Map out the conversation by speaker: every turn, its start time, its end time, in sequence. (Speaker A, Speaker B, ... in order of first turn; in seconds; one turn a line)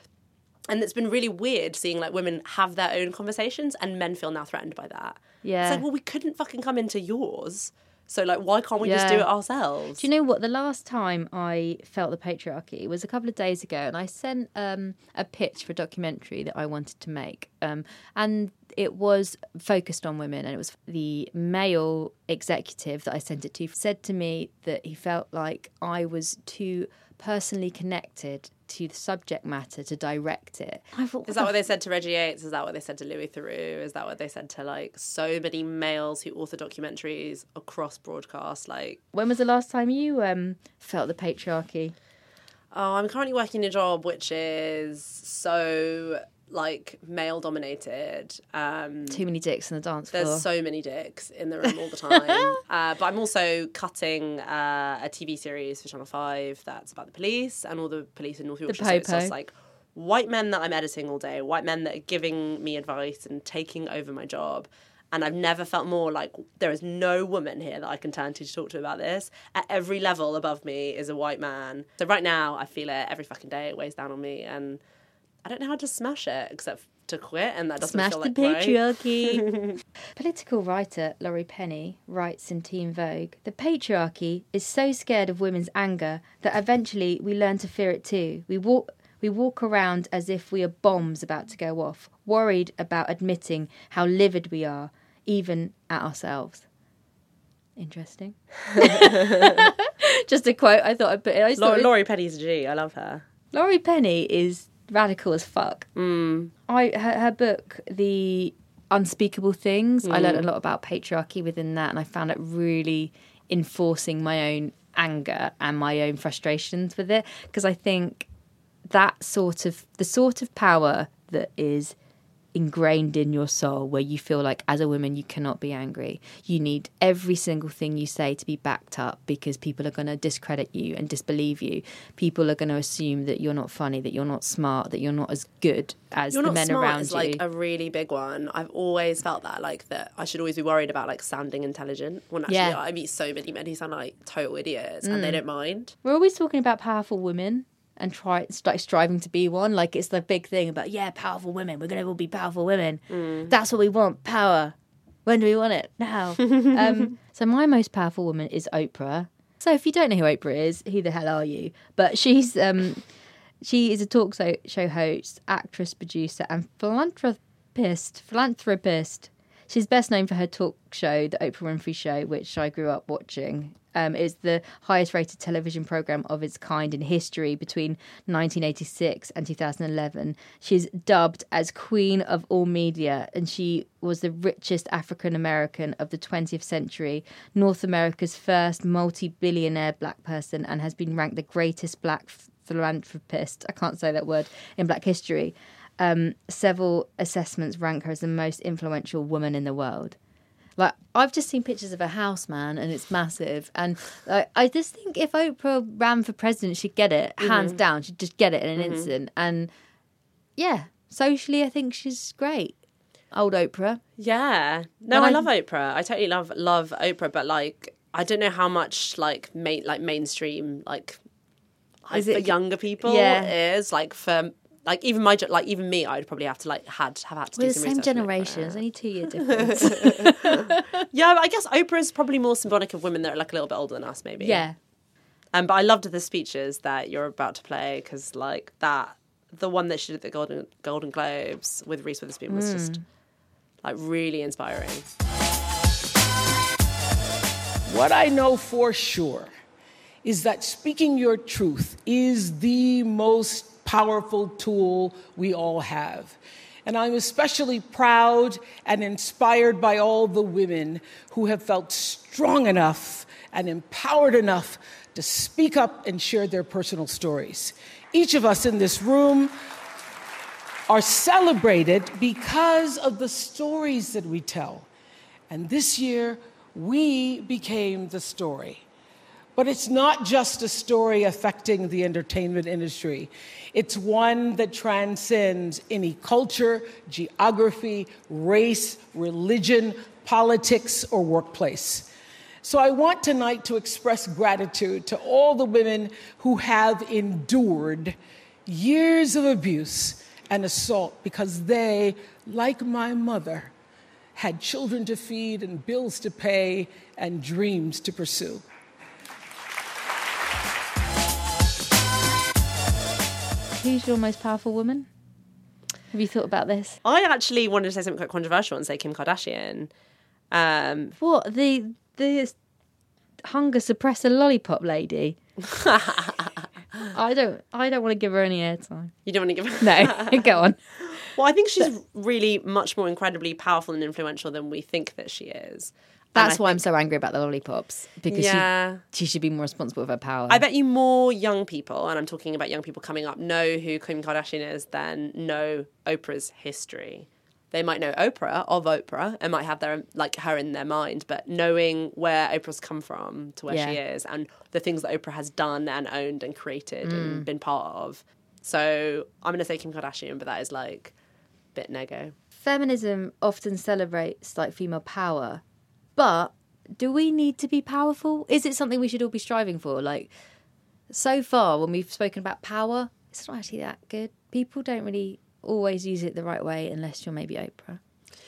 Speaker A: 0.7-10.1
Speaker B: 5.4-5.8
Speaker B: 8.8-9.3
Speaker B: 10.0-31.6
Speaker A: 31.3-39.0
Speaker B: 39.1-42.0
Speaker A: 42.7-49.2
Speaker B: 49.1-50.5
Speaker A: 50.1-74.8
Speaker B: 52.1-52.4
Speaker B: 58.7-59.3
Speaker A: 75.5-79.7
Speaker B: 77.8-79.5
Speaker B: 80.2-96.7
Speaker B: 97.8-101.9
Speaker A: 98.8-99.6
Speaker A: 101.6-103.2
Speaker B: 103.5-105.9
Speaker A: 106.0-106.5
Speaker B: 106.7-118.3
Speaker A: 110.0-110.5
Speaker B: 118.9-122.0
Speaker B: 122.5-137.4
Speaker A: 136.3-145.9
Speaker B: 142.5-142.8
Speaker B: 145.0-145.4
Speaker B: 146.0-154.8
Speaker A: 153.1-153.5
Speaker B: 155.3-163.1
Speaker A: 156.5-156.8
Speaker B: 163.6-200.2
Speaker B: 200.8-209.7
Speaker A: 207.4-207.8
Speaker A: 208.8-209.1
Speaker B: 210.6-212.8
Speaker B: 213.3-214.0
Speaker A: 214.2-221.2
Speaker B: 215.1-215.5
Speaker A: 222.1-228.8
Speaker B: 222.1-223.5
Speaker B: 227.6-231.1
Speaker A: 229.4-234.6
Speaker B: 234.4-234.8
Speaker A: 235.5-243.0
Speaker B: 242.5-243.0
Speaker A: 243.8-245.1
Speaker C: 247.9-249.5
Speaker C: 250.2-269.5
Speaker C: 270.9-274.9
Speaker C: 275.5-278.9
Speaker C: 279.6-292.1
Speaker C: 292.6-303.7
Speaker C: 304.4-308.6
Speaker B: 313.8-315.1
Speaker B: 316.1-317.0
Speaker A: 317.0-319.9
Speaker A: 320.5-321.1
Speaker B: 321.2-322.6
Speaker B: 323.4-325.4
Speaker A: 325.7-327.1
Speaker B: 327.1-329.1
Speaker A: 329.3-330.5
Speaker B: 329.8-331.3
Speaker A: 331.1-336.8
Speaker B: 336.4-340.6
Speaker A: 338.3-339.0
Speaker A: 340.5-361.1
Speaker B: 353.7-354.0
Speaker B: 357.0-357.5
Speaker A: 361.8-362.3
Speaker B: 362.6-365.6
Speaker B: 366.2-370.3
Speaker B: 371.1-378.0